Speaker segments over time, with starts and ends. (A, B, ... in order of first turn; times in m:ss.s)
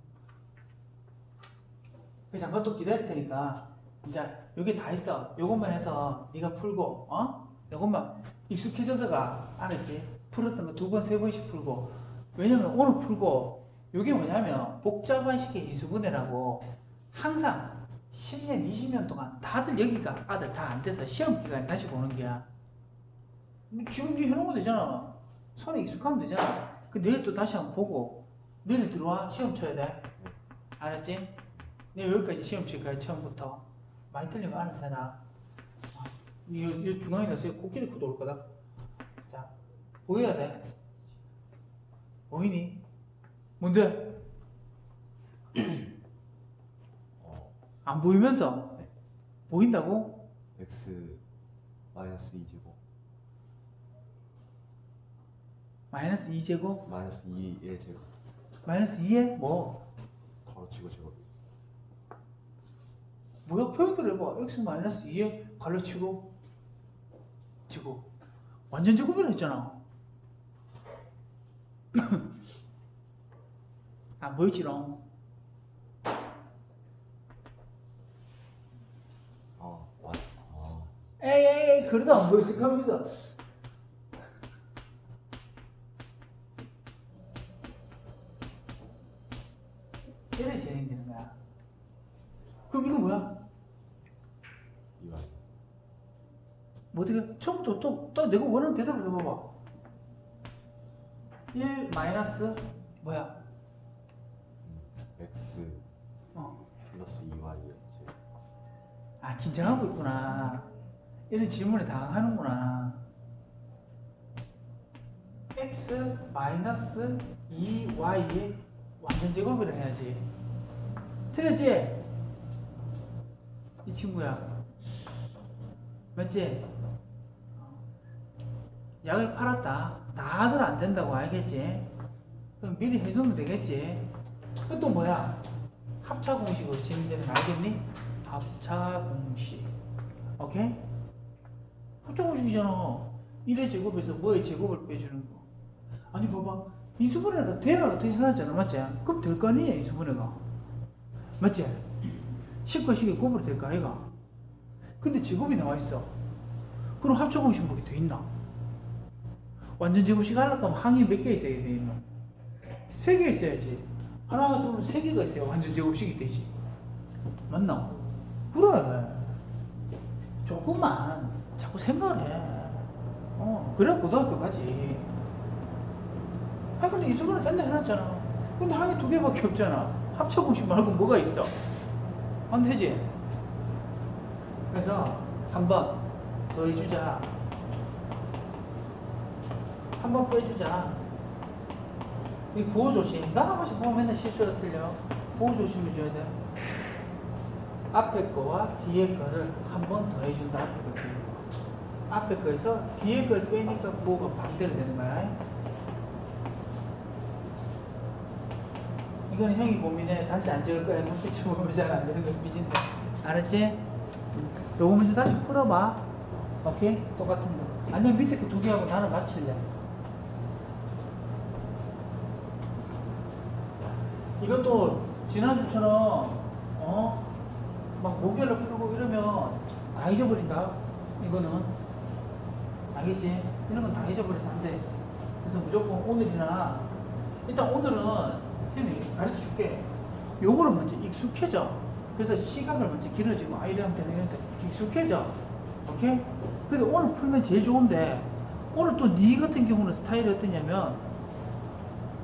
0:02.3-0:22.5 A
0:23.7-0:30.1 A
0:30.8-0:31.4 A
0:31.9-0:35.2 A
0:35.9-0:38.5 A
0:39.3-0:39.5 A
0:40.0-0:40.7 A
0:42.3-0:42.8 A
0:43.6-0:44.2 A
0:47.2-0:47.5 B
0:47.8-0:48.8 A
0:49.5-0:50.2 A
0:50.6-0:51.2 B
0:51.9-0:52.8 B
0:55.9-0:56.8 A
0:56.8-0:58.1 B
0:58.6-0:59.8 A
1:00.4-1:01.2 B
1:03.4-1:06.3 A
1:07.7-1:08.1 A
1:08.7-1:09.8 A
1:11.9-1:12.3 A
1:14.2-1:15.0 A
1:19.6-1:20.9 B
1:21.2-1:23.2 A
1:30.3-1:31.4 A
1:32.7-1:33.4 A
1:35.0-1:35.4 B
1:36.9-1:39.5 A
1:41.5-1:43.4 A
1:44.6-1:45.9 B
1:46.3-1:46.6 A
1:46.8-1:48.2 B
1:49.2-1:50.7 A
1:51.3-1:53.0 A
1:55.5-2:00.2 A
2:01.3-2:02.0 A
2:03.8-2:04.6 A
2:06.1-2:06.7 A
2:07.5-2:07.8 A
2:09.0-2:11.9 A
2:12.6-2:14.1 A
2:14.7-2:15.4 A
2:16.0-2:19.7 A
2:20.4-2:20.8 A
2:22.0-2:25.5 A
2:26.1-2:30.4 A
2:31.4-2:34.1 A
2:35.0-2:36.1 A
2:37.0-2:38.3 A
2:39.8-2:42.1 A
2:43.0-2:46.5 A
2:47.5-2:49.4 A
2:50.4-2:55.1 A
2:56.8-3:01.6 A
3:02.5-3:03.1 A
3:04.7-3:07.3 A
3:10.0-3:11.0 A
3:12.5-3:16.4 A
3:17.9-3:21.3 A
3:22.1-3:25.4 A
3:29.3-3:39.7 A
3:44.4-3:47.3 A
3:48.0-3:51.7 A
3:52.9-3:54.9 A
3:55.4-3:56.9 A
3:57.4-4:11.1 A